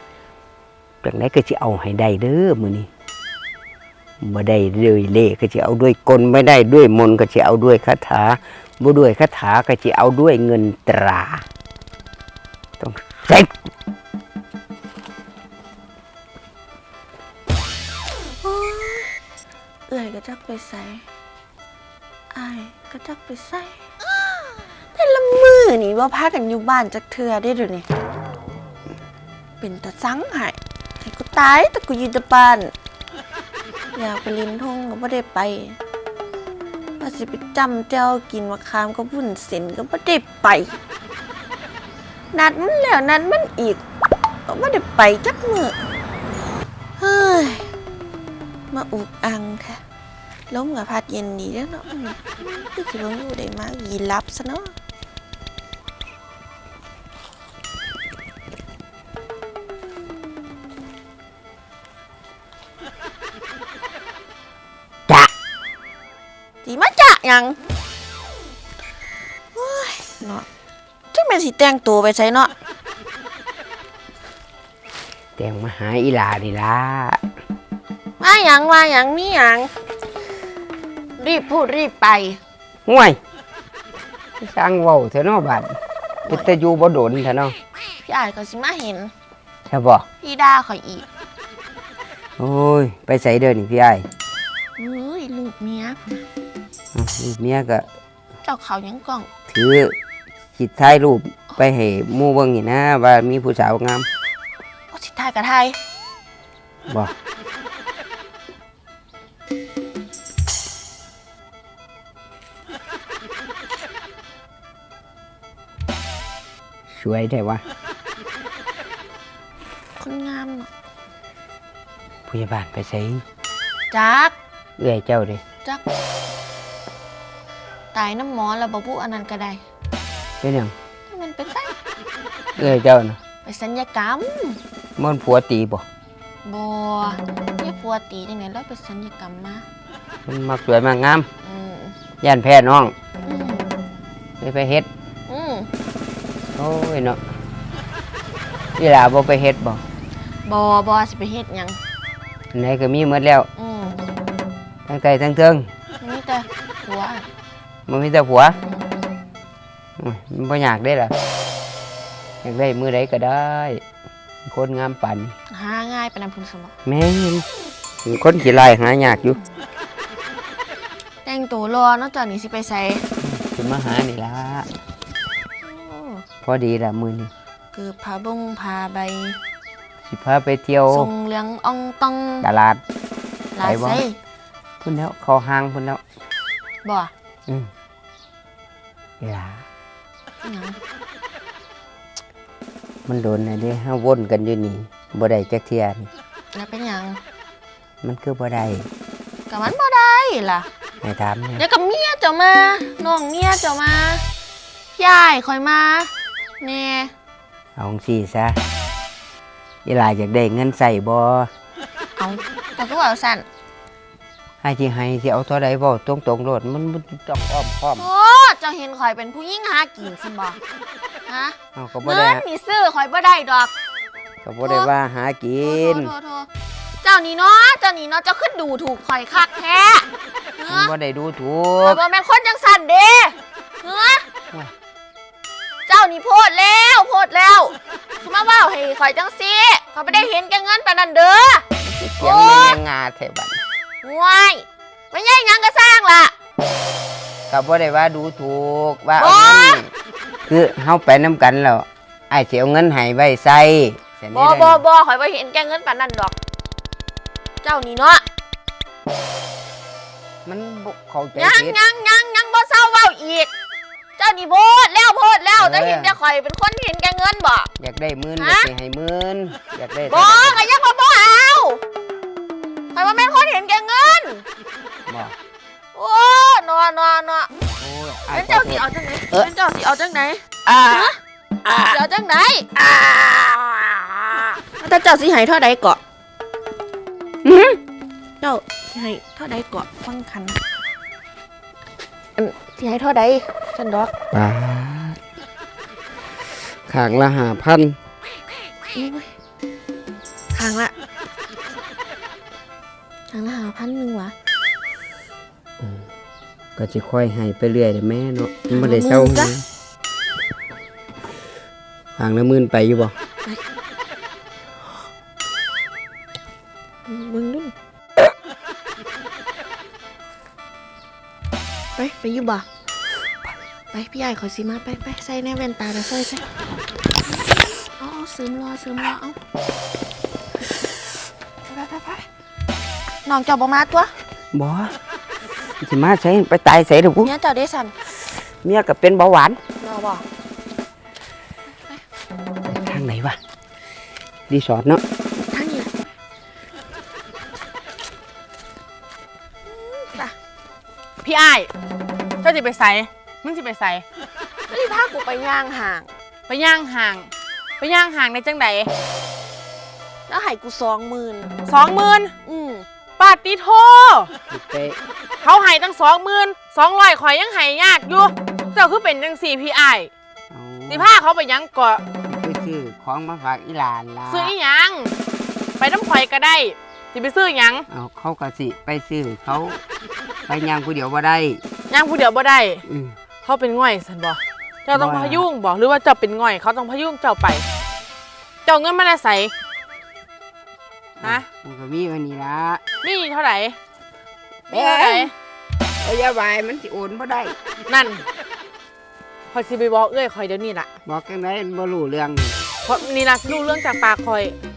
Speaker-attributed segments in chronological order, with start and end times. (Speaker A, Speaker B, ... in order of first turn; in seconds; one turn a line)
Speaker A: 1.0-2.9
Speaker A: 4.2-11.4
Speaker A: 12.8-13.5
Speaker B: 18.4-19.1
Speaker B: 19.9-21.0
Speaker B: 22.3-23.9
Speaker B: 24.9-27.9
Speaker B: 29.6-32.7
Speaker B: 33.9-35.8
Speaker B: 37.0-40.8
Speaker B: 42.3-43.8
Speaker B: 44.5-45.8
Speaker B: 47.0-47.7
Speaker B: 48.7-49.8
Speaker B: 50.5-54.7
Speaker B: 66.6-67.6
Speaker B: 69.5-70.5
Speaker B: 71.1-72.5
Speaker A: 75.4-77.2
Speaker B: 78.2-79.7
Speaker B: 81.2-82.4
Speaker A: 82.8-83.2
Speaker A: 84.4-85.7
Speaker A: 86.3-87.5
Speaker B: 88.0-89.1
Speaker A: 89.7-90.0
Speaker B: 90.2-91.0
Speaker A: 92.4-94.1
Speaker B: 94.8-96.2
Speaker A: 96.9-97.9
Speaker B: 98.4-99.3
Speaker A: 99.5-99.9
Speaker A: 100.5-104.1
Speaker B: 104.9-105.8
Speaker A: 106.9-107.1
Speaker A: 116.9-117.6
Speaker B: 120.0-120.7
Speaker A: 122.3-123.2
Speaker B: 123.9-124.3
Speaker A: 124.8-125.4
Speaker B: 127.9-129.6
Speaker A: 130.4-130.7
Speaker B: 131.1-131.7
Speaker A: 132.6-133.2
Speaker B: 133.4-134.6
Speaker A: 135.0-135.8
Speaker B: 136.4-139.6
Speaker A: 140.3-141.3
Speaker B: 141.4-142.0
Speaker A: 142.2-142.9
Speaker B: 143.2-143.7
Speaker A: 144.4-144.9
Speaker B: 145.3-145.7
Speaker A: 146.5-147.2
Speaker A: 148.8-149.8
Speaker B: 150.4-151.8
Speaker A: 152.5-153.5
Speaker B: 153.6-154.0
Speaker A: 154.9-155.7
Speaker B: 156.0-157.3
Speaker A: 157.9-158.6
Speaker A: 160.0-161.1
Speaker A: 162.4-163.8
Speaker A: 164.4-165.3
Speaker B: 165.5-166.7
Speaker A: 166.8-167.4
Speaker A: 168.0-169.4
Speaker B: 171.2-173.0
Speaker A: 173.2-174.7
Speaker B: 175.6-176.2
Speaker A: 176.4-177.3
Speaker B: 177.7-179.4
Speaker A: 180.1-181.1
Speaker B: 180.9-182.5
Speaker A: 182.4-182.8
Speaker B: 183.5-184.2
Speaker A: 183.6-184.0
Speaker A: 184.8-186.0
Speaker B: 186.8-187.1
Speaker A: 189.2-189.6
Speaker B: 190.4-190.8
Speaker A: 193.1-196.1
Speaker B: 196.5-197.2
Speaker A: 198.0-198.9
Speaker B: 199.5-200.7
Speaker A: 201.0-201.6
Speaker B: 201.6-204.2
Speaker B: 204.9-207.1
Speaker A: 207.8-208.6
Speaker A: 209.8-211.5
Speaker B: 212.2-213.4
Speaker A: 214.6-218.1
Speaker B: 217.9-220.6
Speaker B: 221.2-223.7
Speaker A: 221.7-222.4
Speaker A: 224.4-226.1
Speaker B: 224.6-224.9
Speaker B: 225.6-226.5
Speaker B: 227.0-230.9
Speaker A: 230.7-232.0
Speaker B: 231.8-234.2
Speaker B: 235.9-241.7
Speaker A: 241.8-243.6
Speaker B: 242.2-242.8
Speaker B: 244.0-246.3
Speaker A: 247.5-249.9
Speaker B: 249.2-249.8
Speaker A: 250.5-254.8
Speaker B: 254.3-256.3
Speaker B: 257.6-258.2
Speaker A: 260.4-261.8
Speaker B: 261.3-263.5
Speaker B: 264.2-267.7
Speaker A: 265.6-266.1
Speaker A: 267.8-270.6
Speaker B: 268.4-268.7
Speaker B: 270.1-271.8
Speaker B: 272.9-274.4
Speaker A: 275.1-275.3
Speaker B: 275.9-277.5
Speaker A: 277.8-279.5
Speaker B: 278.3-281.2
Speaker A: 280.6-281.1
Speaker A: 281.6-282.0
Speaker B: 281.8-282.7
Speaker A: 282.8-284.6
Speaker B: 284.7-286.0
Speaker A: 287.4-287.8
Speaker B: 288.4-290.6
Speaker B: 292.4-294.1
Speaker A: 294.3-295.2
Speaker A: 296.9-298.0
Speaker B: 298.9-299.3
Speaker B: 300.5-300.9
Speaker B: 303.3-304.3
Speaker A: 306.8-309.6
Speaker B: 308.7-309.5
Speaker A: 312.2-313.1
Speaker B: 317.1-317.7
Speaker B: 321.9-322.6
Speaker B: 323.9-326.5
Speaker B: 327.9-329.4
Speaker B: 331.7-332.2
Speaker B: 333.2-334.1
Speaker A: 334.5-334.9
Speaker A: 335.8-337.3
Speaker B: 337.2-337.9
Speaker A: 338.6-339.6
Speaker B: 339.8-340.2
Speaker A: 342.7-343.4
Speaker A: 344.5-345.0
Speaker B: 345.4-345.9
Speaker B: 349.6-350.3
Speaker C: 351.2-351.7
Speaker C: 352.4-354.0
Speaker B: 354.7-356.1
Speaker C: 356.5-358.9
Speaker B: 360.3-361.5
Speaker C: 361.6-362.3
Speaker B: 362.4-362.9
Speaker C: 363.2-364.3
Speaker A: 364.5-365.0
Speaker C: 365.4-370.1
Speaker A: 370.5-371.1
Speaker C: 370.9-372.0
Speaker A: 372.2-374.5
Speaker C: 374.3-375.1
Speaker C: 375.8-377.8
Speaker A: 377.9-379.8
Speaker A: 380.5-381.6
Speaker C: 381.9-382.8
Speaker A: 382.9-383.2
Speaker C: 383.4-387.6
Speaker A: 384.9-385.5
Speaker C: 388.6-389.5
Speaker A: 391.2-392.8
Speaker C: 393.0-393.8
Speaker A: 394.7-395.3
Speaker C: 394.7-395.3
Speaker A: 396.0-397.6
Speaker C: 397.9-398.2
Speaker C: 399.5-400.9
Speaker A: 401.0-402.6
Speaker C: 402.8-404.6